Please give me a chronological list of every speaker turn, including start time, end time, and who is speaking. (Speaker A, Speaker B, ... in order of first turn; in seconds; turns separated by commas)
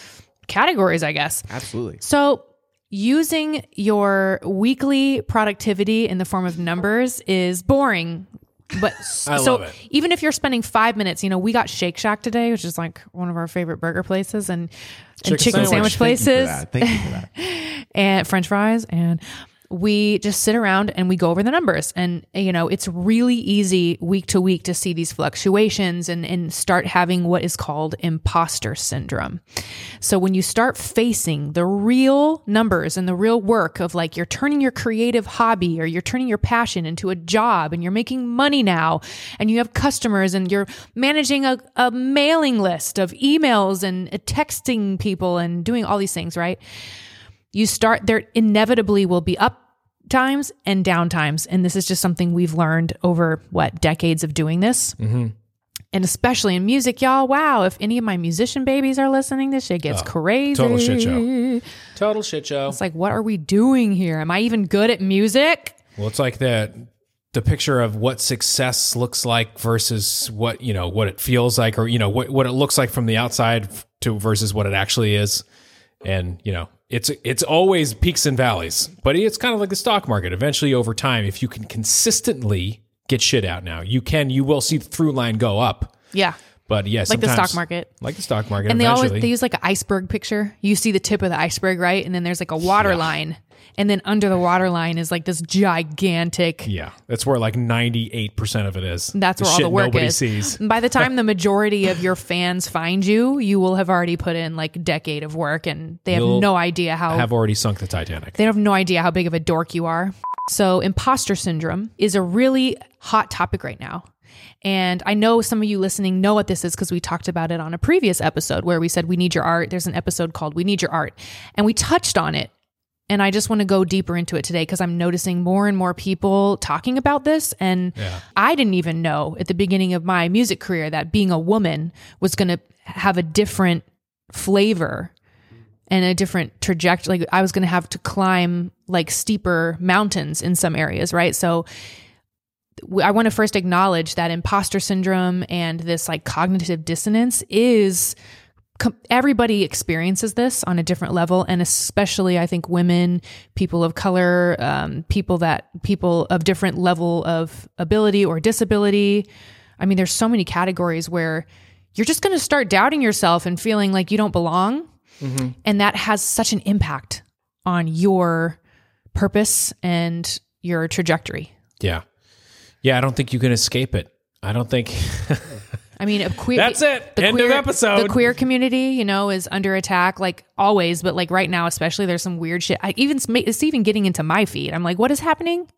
Speaker A: 0.5-1.5, Speaker B: 1.5-2.0, Speaker A: 2.0-29.4, Speaker C: 9.3-9.8, Speaker C: 15.2-16.1, Speaker B: 15.4-17.3, Speaker A: 30.0-46.6, Speaker A: 47.5-55.0, Speaker C: 55.0-55.3, Speaker A: 55.9-61.6, Speaker C: 59.9-61.2, Speaker C: 62.0-62.8, Speaker A: 62.7-65.8, Speaker C: 66.0-75.4, Speaker C: 76.0-85.9, Speaker C: 86.7-89.3, Speaker A: 87.1-87.9, Speaker A: 88.7-96.7, Speaker C: 92.8-93.1, Speaker C: 96.7-101.1, Speaker A: 99.1-107.3, Speaker C: 106.1-106.5, Speaker C: 107.1-108.3, Speaker A: 108.3-114.1, Speaker A: 114.6-122.5, Speaker A: 123.1-135.1, Speaker C: 128.0-128.2, Speaker A: 135.9-141.7, Speaker A: 142.8-148.2, Speaker A: 148.8-159.3, Speaker A: 159.8-164.9, Speaker C: 165.2-165.6, Speaker A: 165.6-168.6, Speaker A: 169.1-171.5, Speaker C: 172.8-175.6, Speaker A: 176.0-185.7, Speaker C: 176.5-178.3